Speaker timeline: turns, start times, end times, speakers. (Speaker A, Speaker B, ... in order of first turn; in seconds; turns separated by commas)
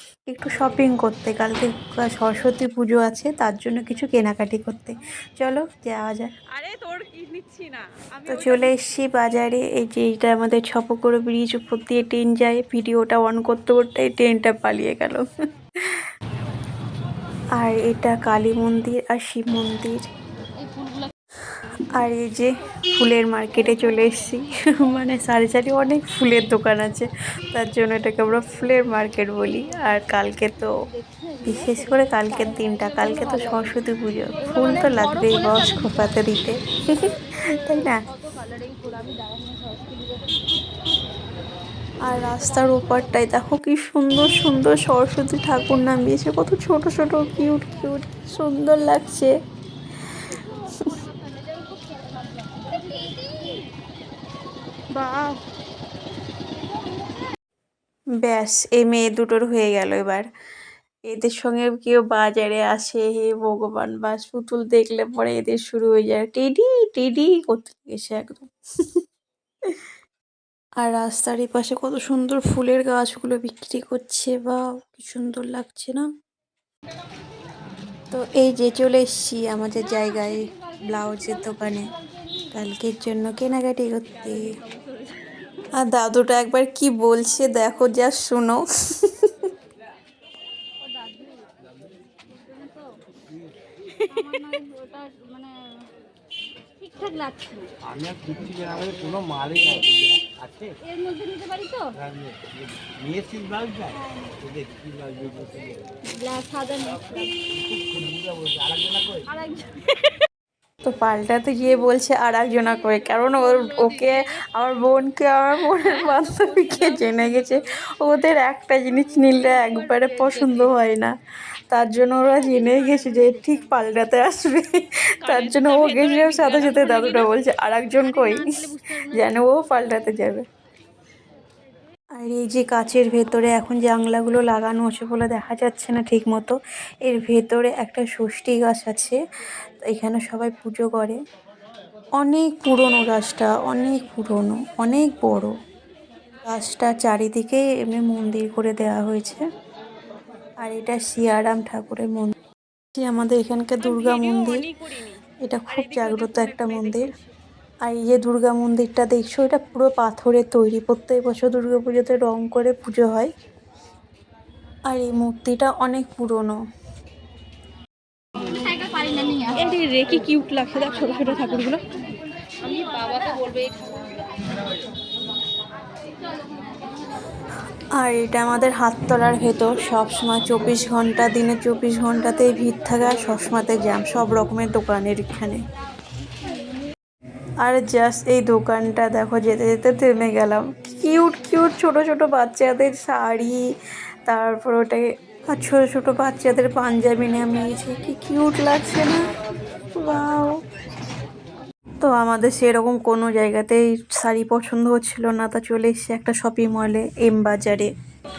Speaker A: 0.3-6.3, Speaker B: 6.5-7.8, Speaker A: 8.3-15.2, Speaker A: 17.6-20.0, Speaker A: 22.0-30.7, Speaker C: 31.0-31.6, Speaker A: 31.4-38.0, Speaker C: 34.7-35.5, Speaker C: 38.2-40.5, Speaker A: 42.1-49.3, Speaker C: 50.7-53.6, Speaker A: 55.0-55.3, Speaker A: 58.2-60.3, Speaker A: 61.1-68.5, Speaker A: 70.8-76.1, Speaker A: 78.1-81.9, Speaker A: 82.5-84.5, Speaker A: 85.8-89.5, Speaker C: 90.8-91.5, Speaker C: 92.3-93.0, Speaker C: 94.1-95.5, Speaker C: 96.8-97.7, Speaker D: 97.8-100.8, Speaker C: 100.8-101.9, Speaker D: 102.0-105.8, Speaker C: 104.0-104.3, Speaker C: 106.1-107.3, Speaker D: 107.7-109.3, Speaker C: 109.3-109.8, Speaker A: 110.8-121.1, Speaker A: 121.7-130.4, Speaker B: 125.3-127.3, Speaker C: 128.3-129.2, Speaker A: 132.2-136.6, Speaker A: 137.1-139.2, Speaker A: 139.8-141.2, Speaker A: 142.2-145.5, Speaker A: 146.5-149.4, Speaker A: 150.6-152.3, Speaker A: 152.9-154.7, Speaker B: 153.9-154.7, Speaker A: 155.4-157.1, Speaker B: 155.8-157.0, Speaker A: 157.9-163.3, Speaker A: 164.9-166.6, Speaker C: 168.7-169.5, Speaker B: 169.5-171.8, Speaker C: 172.6-174.1, Speaker A: 178.0-185.6, Speaker A: 187.6-193.6, Speaker A: 194.3-199.2, Speaker A: 200.0-200.6, Speaker A: 202.0-207.9